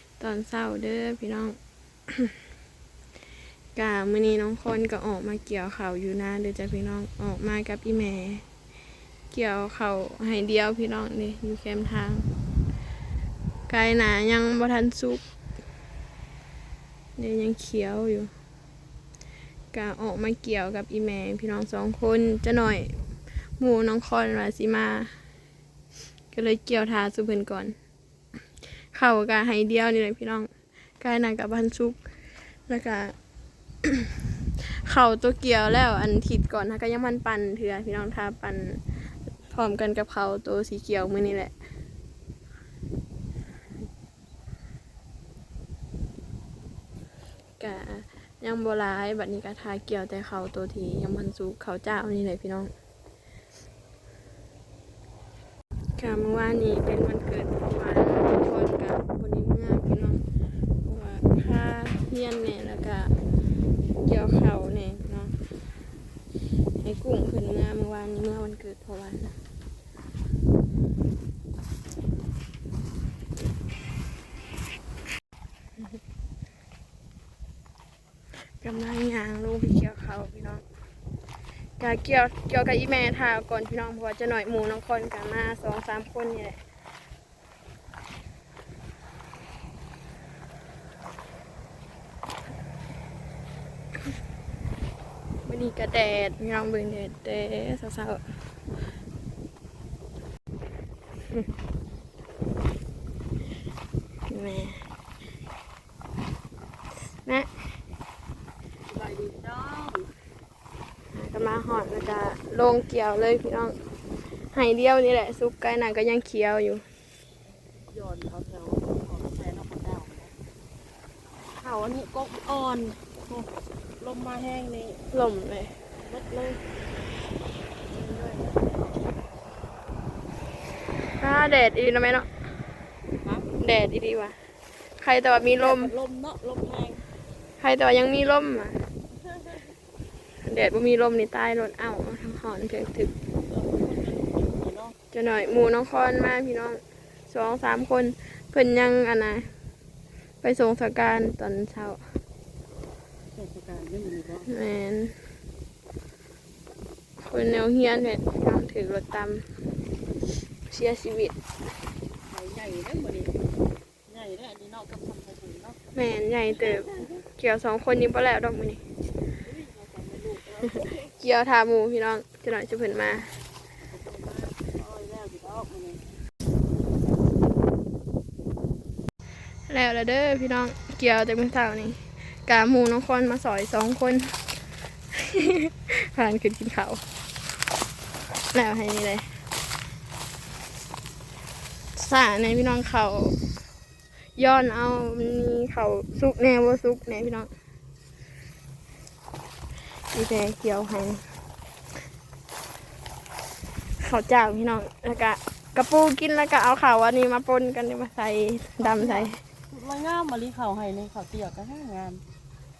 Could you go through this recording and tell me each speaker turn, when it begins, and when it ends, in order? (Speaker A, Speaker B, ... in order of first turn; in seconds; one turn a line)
Speaker A: 0.2-1.6
Speaker A: 2.1-2.3
Speaker A: 3.7-8.4
Speaker A: 9.3-12.3
Speaker A: 13.7-15.2
Speaker A: 17.2-18.3
Speaker A: 19.7-23.0
Speaker A: 23.6-25.1
Speaker A: 26.3-27.8
Speaker A: 28.9-30.5
Speaker A: 31.0-32.0
Speaker A: 32.7-33.1
Speaker A: 33.8-34.1
Speaker A: 34.7-41.5
Speaker A: 47.6-52.7
Speaker A: 56.0-60.2
Speaker A: 60.8-63.1
Speaker A: 64.0-65.3
Speaker A: 66.8-69.3
Speaker A: 78.6-80.6
Speaker A: 81.8-86.6
Speaker A: 95.4-98.2
Speaker A: 104.3-104.8
Speaker A: 107.2-107.6
Speaker B: 108.9-110.1
Speaker A: 111.1-113.8
Speaker A: 114.5-116.8
Speaker B: 117.9-120.3
Speaker B: 121.6-123.5
Speaker B: 124.0-125.0
Speaker A: 125.1-125.7
Speaker B: 126.0-126.6
Speaker B: 127.9-129.1
Speaker A: 131.2-132.3
Speaker B: 133.2-133.5
Speaker A: 133.6-134.4
Speaker A: 135.0-135.9
Speaker B: 135.6-137.0
Speaker A: 137.6-138.8
Speaker A: 140.4-143.1
Speaker B: 143.5-144.9
Speaker A: 145.1-149.5
Speaker A: 150.4-152.0
Speaker B: 153.3-154.5
Speaker A: 154.5-155.1
Speaker A: 157.2-159.4
Speaker A: 160.7-161.3
Speaker B: 162.3-163.3
Speaker B: 164.1-165.8
Speaker A: 165.9-168.8
Speaker B: 166.5-167.2
Speaker B: 169.4-171.1
Speaker A: 171.2-173.3
Speaker B: 173.8-176.0
Speaker A: 179.7-184.3
Speaker A: 185.2-187.0
Speaker A: 188.5-189.3
Speaker A: 191.9-193.4
Speaker A: 194.4-197.5
Speaker A: 200.1-201.2
Speaker A: 204.0-209.4
Speaker B: 208.8-212.2